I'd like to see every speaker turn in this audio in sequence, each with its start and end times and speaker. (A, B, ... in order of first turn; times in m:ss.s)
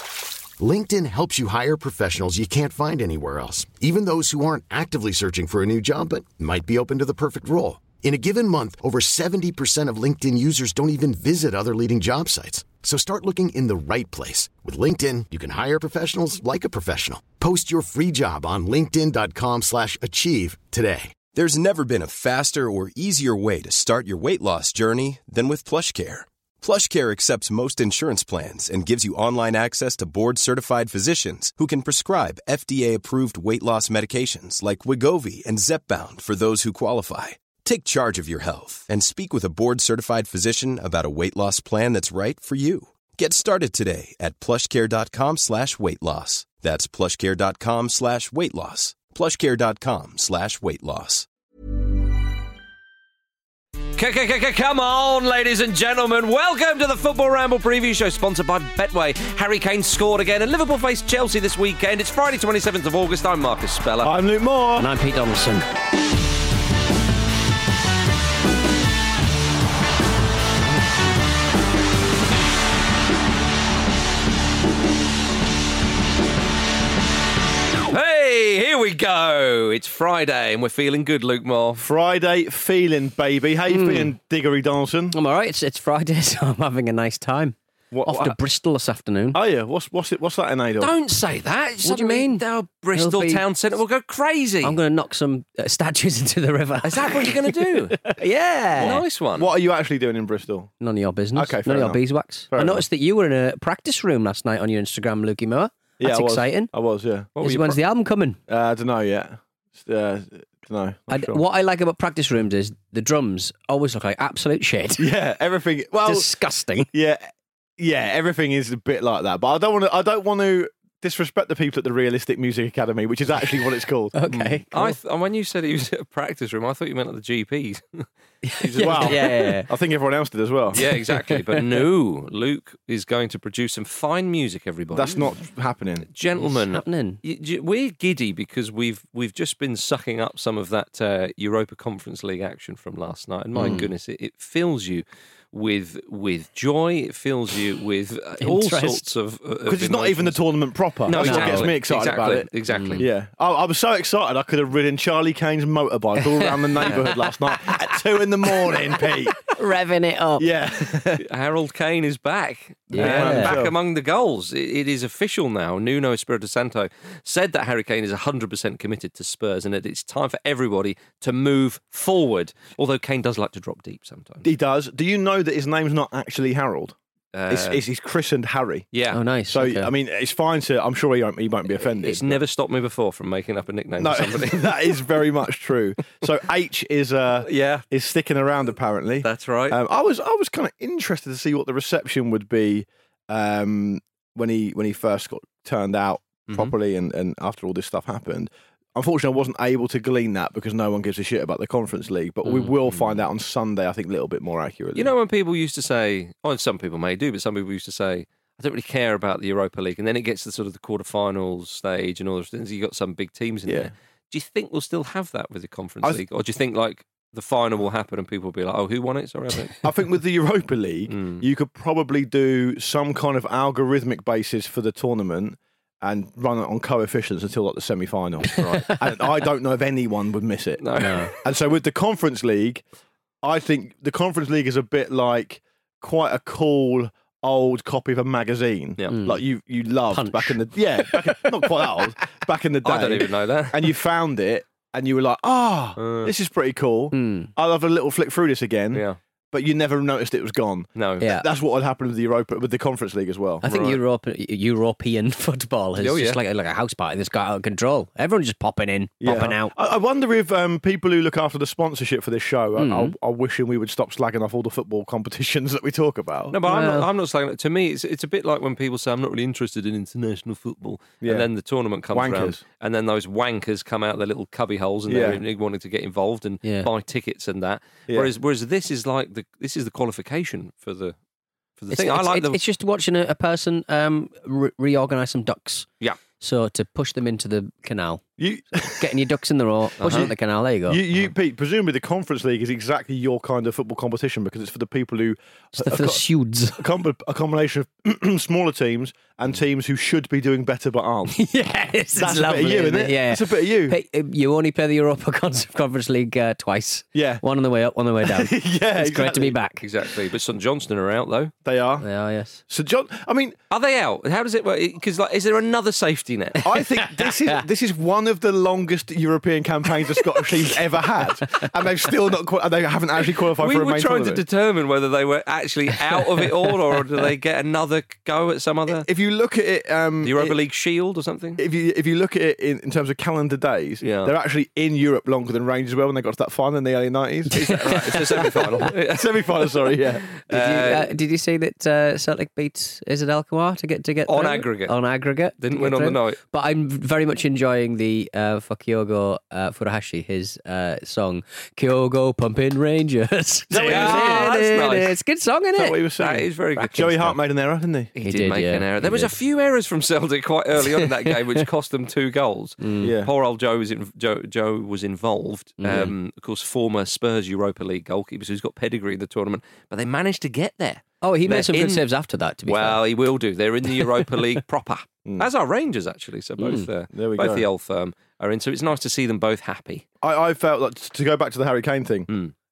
0:00.6-0:21.2 A
0:21.2-0:51.3 B
0:54.0-1:04.1 C
1:04.0-1:04.9 D
1:04.8-1:05.7 E
1:17.9-1:21.9 C
1:21.8-1:25.2 D
1:23.7-1:24.1 E
1:25.1-1:29.4 E
1:27.9-1:28.4 D
1:29.3-1:30.9 D
1:30.8-1:34.8 C
1:31.8-1:33.4 E
1:34.6-1:39.0 E
1:36.8-1:38.0 C
1:38.8-1:39.5 C
1:39.4-1:40.7 D
1:40.8-1:46.7 E
1:41.3-1:42.8 D
1:46.0-1:47.3 D
1:47.4-1:47.8 C
1:47.4-1:48.4 E
1:48.5-1:51.4 D
1:51.1-1:55.1 E
1:55.0-1:56.3 D
1:56.0-1:56.9 E
1:56.9-2:04.6 D
2:04.1-2:04.9 E
2:04.7-2:08.1 C
2:08.4-2:09.7 E
2:08.6-2:09.3 C
2:08.8-2:10.8 D
2:10.7-2:15.3 C
2:10.8-2:11.6 E
2:14.9-2:16.1 D
2:16.1-2:30.4 C
2:16.4-2:17.2 E
2:23.6-2:23.9 E
2:28.4-2:29.1 E
2:29.7-2:39.4 D
2:31.1-2:33.1 C
2:31.1-2:31.7 E
2:32.7-2:33.0 E
2:36.2-2:37.9 E
2:38.7-2:40.4 E
2:40.4-2:41.2 D
2:41.2-2:54.5 C
2:42.9-2:43.6 E
2:42.9-2:43.8 D
2:54.4-2:57.0 D
2:57.3-2:57.8 C
2:57.5-2:58.9 D
2:58.9-2:59.2 C
2:59.1-2:59.9 E
2:59.5-3:02.4 D
3:02.0-3:05.0 C
3:04.0-3:25.1 D
3:07.4-3:07.8 C
3:09.2-3:09.8 C
3:24.9-3:39.8 C
3:33.7-3:33.9 D
3:39.8-3:50.9 D
3:41.1-3:41.4 C
3:48.6-3:49.0 E
3:48.6-3:48.9 C
3:50.8-3:51.3 C
3:51.0-3:51.3 E
3:51.4-3:52.8 D
3:53.4-4:13.6 D
3:59.1-3:59.4 E
4:00.1-4:02.1 E
4:02.8-4:03.9 C
4:06.0-4:06.3 C
4:07.1-4:07.5 E
4:08.9-4:09.2 C
4:11.0-4:11.3 C
4:11.2-4:11.5 E
4:13.6-4:19.7 E
4:13.6-4:14.0 C
4:16.0-4:16.4 C
4:19.2-4:26.6 D
4:22.8-4:23.1 E
4:26.5-4:41.1 C
4:26.6-4:27.1 E
4:31.2-4:31.5 D
4:32.1-4:32.6 D
4:35.1-4:35.4 D
4:36.6-4:36.9 E
4:41.8-4:42.6 C
4:41.9-4:45.9 E
4:46.4-4:48.2 E
4:48.4-4:49.2 D
4:49.0-4:51.0 E
4:50.0-4:50.3 C
4:50.9-4:56.2 D
4:55.7-4:56.9 E
4:56.8-5:01.4 D
5:01.3-5:09.8 E
5:02.1-5:04.0 D
5:07.1-5:07.4 D
5:08.2-5:09.6 D
5:09.8-5:11.5 C
5:11.6-5:12.1 D
5:12.0-5:12.6 E
5:12.7-5:13.6 D
5:13.7-5:16.7 C
5:16.6-5:24.4 D
5:17.0-5:17.3 E
5:23.6-5:29.1 C
5:28.9-5:30.6 D
5:30.2-5:31.6 C
5:31.6-5:40.4 D
5:34.0-5:34.3 C
5:37.5-5:38.3 E
5:37.8-5:39.5 C
5:40.5-5:41.1 C
5:40.5-5:56.0 E
5:44.2-5:45.0 C
5:45.6-5:46.4 C
5:53.7-5:54.5 D
5:53.8-5:55.2 C
5:55.8-5:58.1 D
5:56.2-5:57.3 C
5:58.2-6:12.0 C
5:58.2-5:59.3 E
6:00.9-6:01.4 E
6:02.8-6:03.1 E
6:03.0-6:03.3 D
6:05.8-6:06.1 E
6:11.2-6:13.0 E
6:12.7-6:20.0 C
6:14.0-6:14.4 E
6:16.6-6:16.9 E
6:17.1-6:17.6 D
6:20.2-6:22.3 D